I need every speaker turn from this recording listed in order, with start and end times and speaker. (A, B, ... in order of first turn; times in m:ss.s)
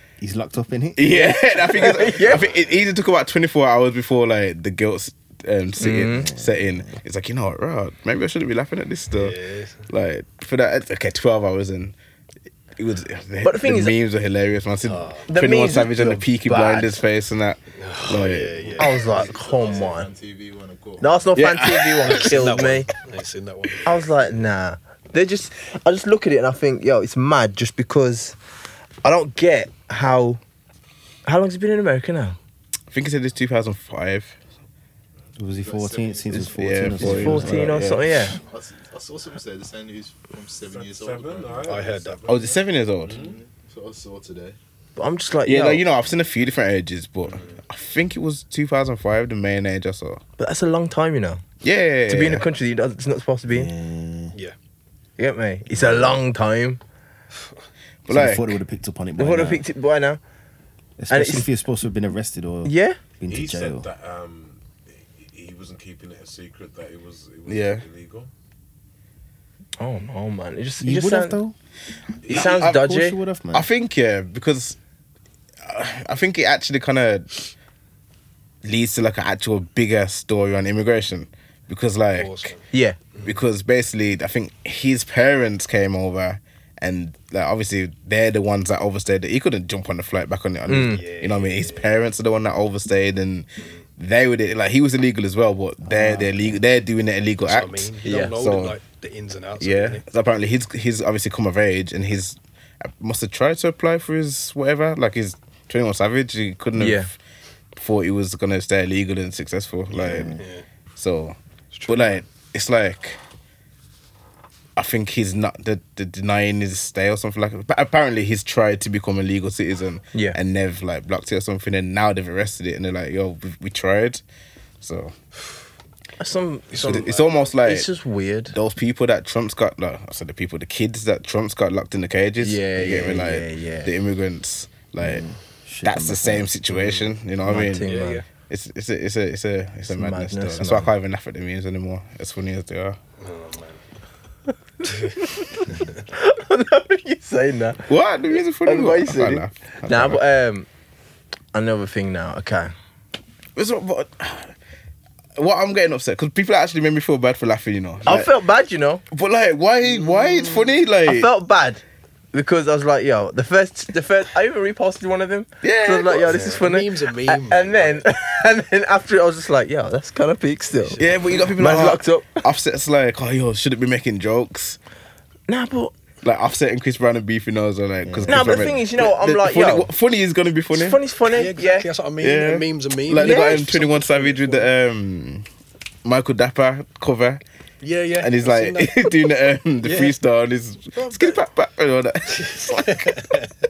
0:00.2-0:01.2 A
0:01.0-0:09.4 B
0:01.6-0:02.5 C
0:05.8-0:06.3 C
0:06.0-0:07.0 A
0:09.1-0:09.8 D
0:09.9-0:12.0 B
0:12.8-0:18.6 B
0:13.4-0:14.0 C
0:14.8-0:15.3 D
0:15.3-0:17.0 C
0:17.8-0:20.0 D
0:18.6-0:21.2 E
0:18.8-0:20.1 C
0:21.0-0:22.9 C
0:21.4-0:22.2 B
0:22.0-0:24.1 D
0:23.8-0:28.4 C
0:29.0-0:30.4 C
0:31.3-0:32.4 C
0:32.9-0:34.4 B
0:35.4-0:37.9 A
0:35.6-0:36.7 E
0:36.6-0:38.2 B
0:36.8-0:38.4 C
0:38.3-0:41.8 E
0:40.7-0:43.4 F
0:41.7-0:42.2 D
0:42.3-0:43.2 B
0:43.1-0:44.6 E
0:45.0-0:45.8 C
0:45.4-0:50.2 B
0:50.4-0:51.4 C
0:51.6-0:52.4 B
0:52.1-0:53.7 C
0:53.5-0:54.4 A
0:55.2-0:56.8 C
0:55.7-0:56.2 A
0:58.1-0:58.6 B
0:58.1-0:59.6 A
0:59.2-1:00.2 C
1:01.0-1:03.9 A
1:01.1-1:01.5 C
1:02.6-1:03.0 C
1:03.3-1:08.3 F
1:07.5-1:07.8 B
1:09.8-1:11.4 C
1:10.8-1:11.6 A
1:12.3-1:13.2 C
1:12.3-1:12.8 B
1:12.3-1:13.7 A
1:13.5-1:14.8 B
1:15.6-1:17.4 B
1:18.6-1:22.5 B
1:22.2-1:23.4 D
1:22.7-1:23.0 C
1:23.2-1:38.8 B
1:30.7-1:31.0 C
1:30.9-1:31.9 D
1:35.8-1:36.6 A
1:37.4-1:40.0 D
1:38.0-1:38.3 C
1:39.6-1:47.2 B
1:46.8-1:47.1 C
1:47.8-1:50.4 B
1:49.9-1:50.4 A
1:50.4-1:50.6 D
1:51.0-1:53.2 B
1:51.7-1:52.2 D
1:54.8-2:04.2 B
2:00.1-2:00.4 C
2:04.8-2:05.1 B
2:06.2-2:08.6 C
2:06.8-2:07.1 D
2:06.8-2:07.9 B
2:08.5-2:15.2 B
2:12.4-2:13.9 C
2:15.0-2:17.0 A
2:15.8-2:23.0 B
2:17.4-2:18.2 C
2:17.8-2:18.2 D
2:19.9-2:20.9 C
2:23.2-2:23.8 D
2:24.8-2:25.2 D
2:26.1-2:27.9 C
2:27.9-2:30.2 B
2:28.6-2:30.7 C
2:31.5-2:32.7 C
2:33.6-2:34.5 B
2:35.4-2:38.3 B
2:38.1-2:39.0 C
2:39.1-2:41.3 B
2:41.0-2:41.8 C
2:42.3-2:51.0 C
2:45.6-2:46.6 B
2:46.1-2:48.1 D
2:50.7-2:51.4 D
2:51.0-2:54.8 B
2:51.6-2:52.4 C
2:55.5-2:55.9 C
2:56.2-3:01.0 B
2:58.0-2:58.8 A
2:58.3-2:59.9 C
3:00.7-3:01.9 C
3:01.3-3:04.7 D
3:02.2-3:05.5 B
3:03.2-3:03.6 C
3:06.0-3:07.4 B
3:07.8-3:09.2 D
3:08.2-3:13.1 B
3:09.8-3:10.2 D
3:11.0-3:11.4 D
3:12.3-3:13.5 D